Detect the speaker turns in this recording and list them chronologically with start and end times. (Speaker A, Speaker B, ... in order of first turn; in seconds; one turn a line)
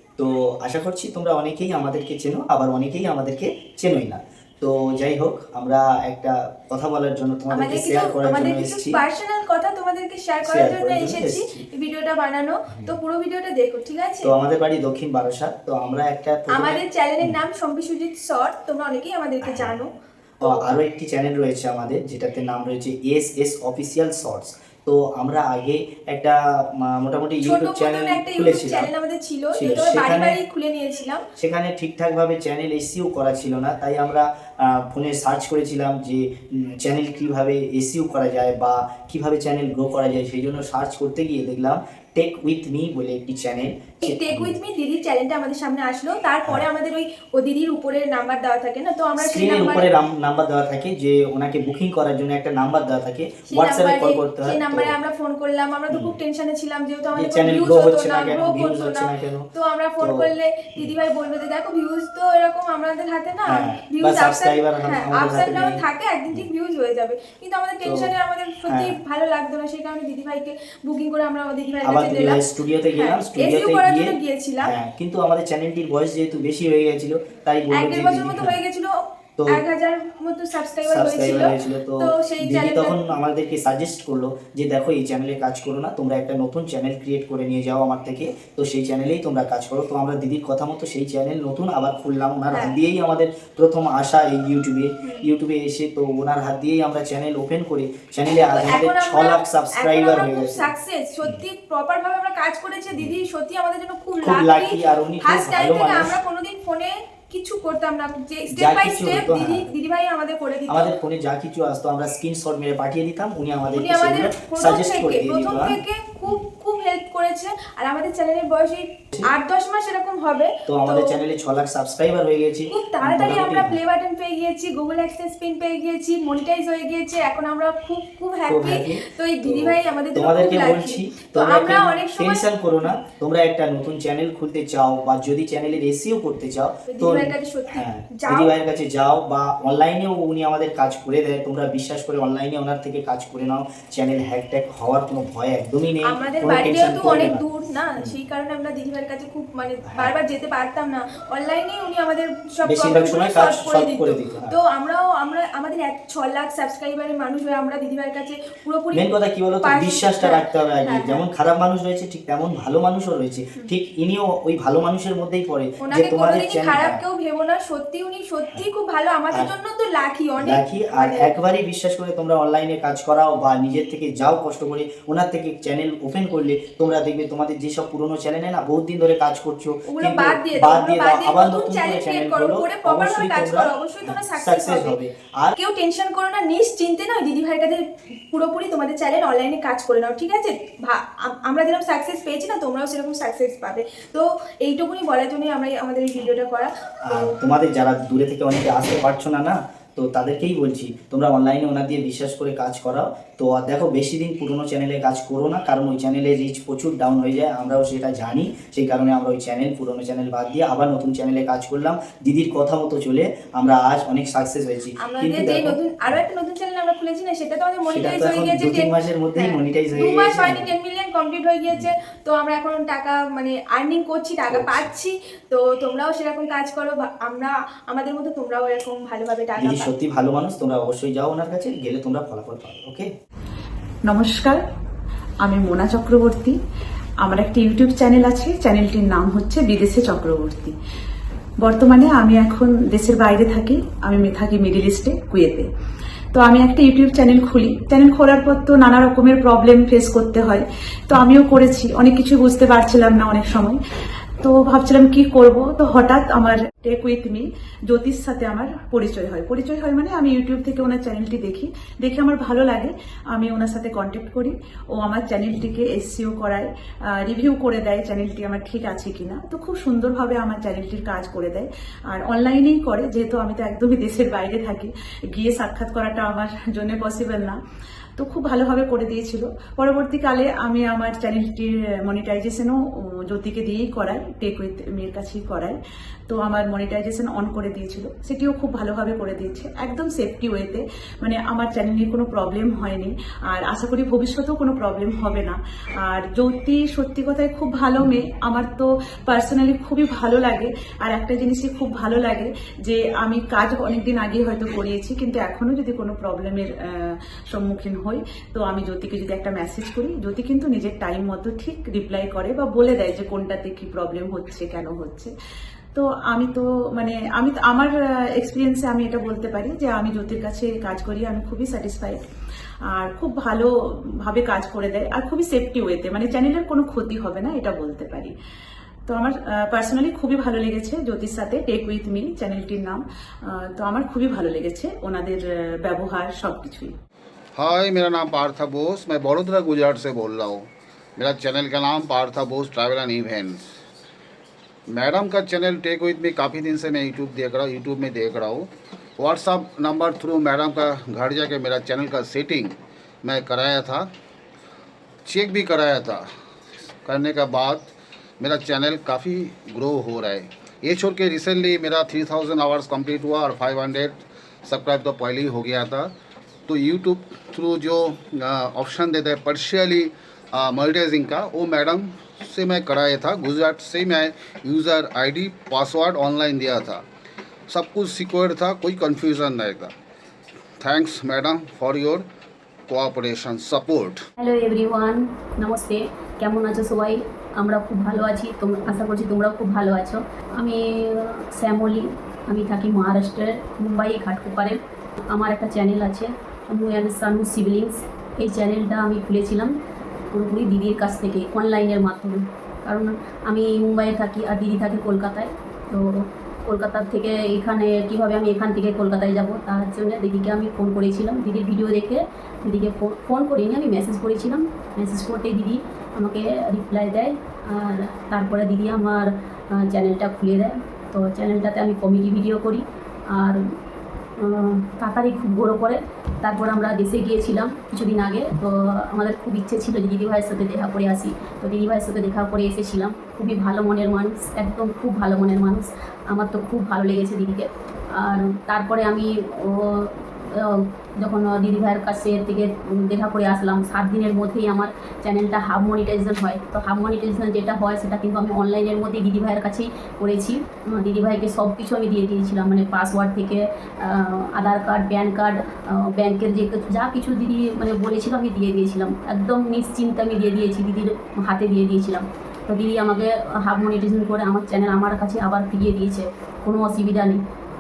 Speaker A: 0.2-9.0
Speaker B: 7.5-14.3
Speaker A: 10.4-11.7
Speaker A: 14.2-17.4
Speaker B: 16.5-20.7
Speaker A: 19.4-19.8
Speaker A: 20.4-28.9
Speaker B: 27.4-31.2
Speaker A: 29.5-30.4
Speaker A: 31.4-44.6
Speaker B: 44.0-49.9
Speaker A: 49.2-54.9
Speaker B: 53.5-74.7
Speaker A: 55.9-56.2
Speaker A: 57.2-59.5
Speaker A: 60.0-60.9
Speaker A: 63.5-66.5
Speaker A: 67.8-68.1
Speaker A: 68.7-69.0
Speaker A: 71.8-78.6
Speaker B: 77.7-83.1
Speaker A: 79.4-79.6
Speaker A: 80.9-100.7
Speaker B: 92.5-92.8
Speaker B: 95.0-95.3
Speaker B: 98.3-110.9
Speaker A: 104.2-106.1
Speaker A: 108.5-109.7
Speaker A: 110.7-115.8
Speaker B: 113.7-121.2
Speaker A: 120.7-123.8
Speaker B: 122.7-132.5
Speaker A: 128.5-147.4
Speaker B: 136.9-138.5
Speaker B: 146.0-159.1
Speaker A: 152.7-154.6
Speaker A: 158.9-167.0
Speaker B: 159.6-161.2
Speaker B: 165.8-171.3
Speaker A: 170.4-185.6
Speaker B: 179.9-185.0
Speaker B: 185.6-197.3
Speaker A: 197.1-216.2
Speaker B: 215.0-229.9
Speaker A: 217.9-220.7
Speaker A: 224.5-224.9
Speaker A: 229.6-233.1
Speaker C: 234.1-234.6
Speaker C: 235.4-236.6
Speaker C: 237.2-240.7
Speaker C: 241.6-245.7
Speaker C: 246.3-253.8
Speaker C: 254.4-277.6
Speaker C: 278.2-285.8
Speaker C: 286.3-315.3
Speaker C: 315.9-322.2
Speaker C: 322.9-328.3
Speaker C: 329.1-336.9
Speaker D: 337.6-343.7
Speaker D: 344.9-354.1
Speaker D: 355.2-356.3
Speaker D: 357.1-366.1
Speaker D: 366.7-377.0
Speaker D: 377.7-379.9
Speaker D: 380.8-382.2
Speaker D: 382.9-384.3
Speaker E: 384.4-399.8
Speaker E: 400.3-423.7
Speaker E: 424.4-467.4